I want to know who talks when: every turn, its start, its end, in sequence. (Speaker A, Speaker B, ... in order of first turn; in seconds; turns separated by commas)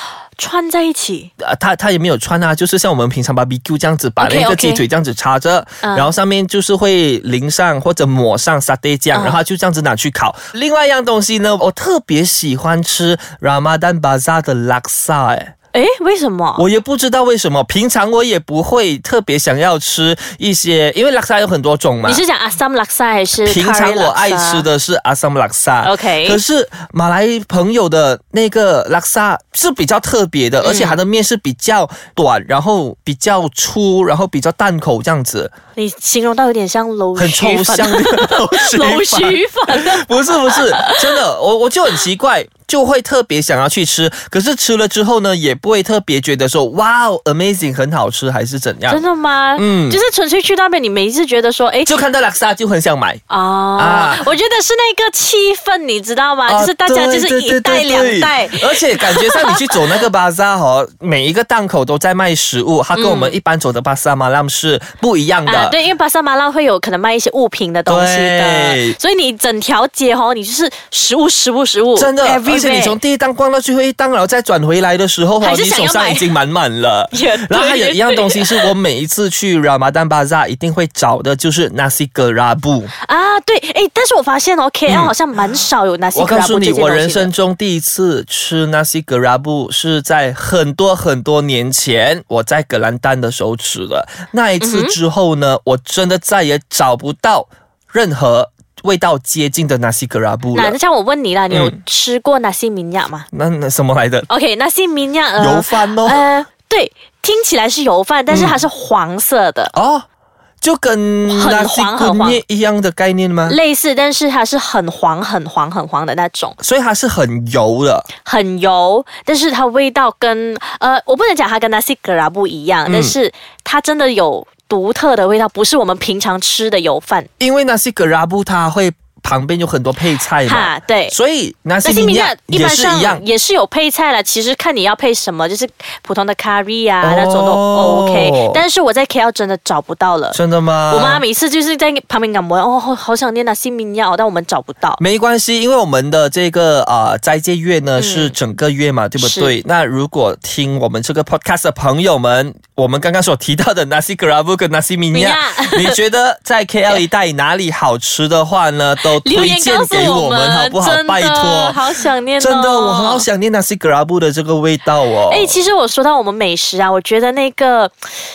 Speaker A: 0.4-1.3, Speaker B: 1.4-15.5, Speaker A: 4.2-4.8, Speaker A: 5.8-6.1, Speaker A: 9.1-9.4, Speaker A: 15.7-16.6, Speaker B: 16.6-22.2, Speaker A: 22.0-24.7, Speaker B: 23.4-35.5, Speaker A: 25.8-26.4, Speaker A: 30.6-31.0, Speaker A: 35.8-41.0, Speaker B: 37.2-49.0, Speaker A: 48.9-52.1, Speaker B: 49.6-50.0, Speaker B: 51.9-53.2, Speaker A: 53.3-60.0, Speaker B: 53.8-54.2, Speaker B: 56.5-65.8, Speaker A: 62.9-63.4, Speaker A: 65.5-73.0, Speaker B: 67.9-69.0, Speaker B: 72.0-82.9, Speaker A: 75.4-76.3, Speaker A: 77.1-78.7, Speaker A: 83.0-87.3, Speaker B: 84.9-85.1, Speaker B: 86.1-100.8, Speaker A: 94.6-95.0, Speaker A: 100.5-103.3, Speaker B: 101.5-101.8, Speaker B: 103.3-104.3, Speaker A: 104.3-109.7, Speaker B: 105.4-106.2, Speaker B: 108.3-108.6, Speaker B: 109.7-110.0, Speaker B: 110.6-113.6, Speaker A: 111.2-112.4, Speaker A: 113.5-116.6, Speaker B: 116.6-118.1, Speaker A: 118.2-127.3, Speaker B: 122.9-123.2, Speaker B: 127.4-133.2, Speaker A: 130.4-131.2, Speaker A: 131.8-140.4, Speaker B: 137.0-138.6, Speaker B: 140.3-141.2, Speaker A: 140.9-145.0, Speaker B: 145.0-161.8, Speaker A: 148.0-148.3, Speaker A: 149.2-149.6, Speaker A: 155.1-156.0, Speaker A: 159.1-163.3, Speaker B: 162.4-165.6, Speaker A: 165.3-167.9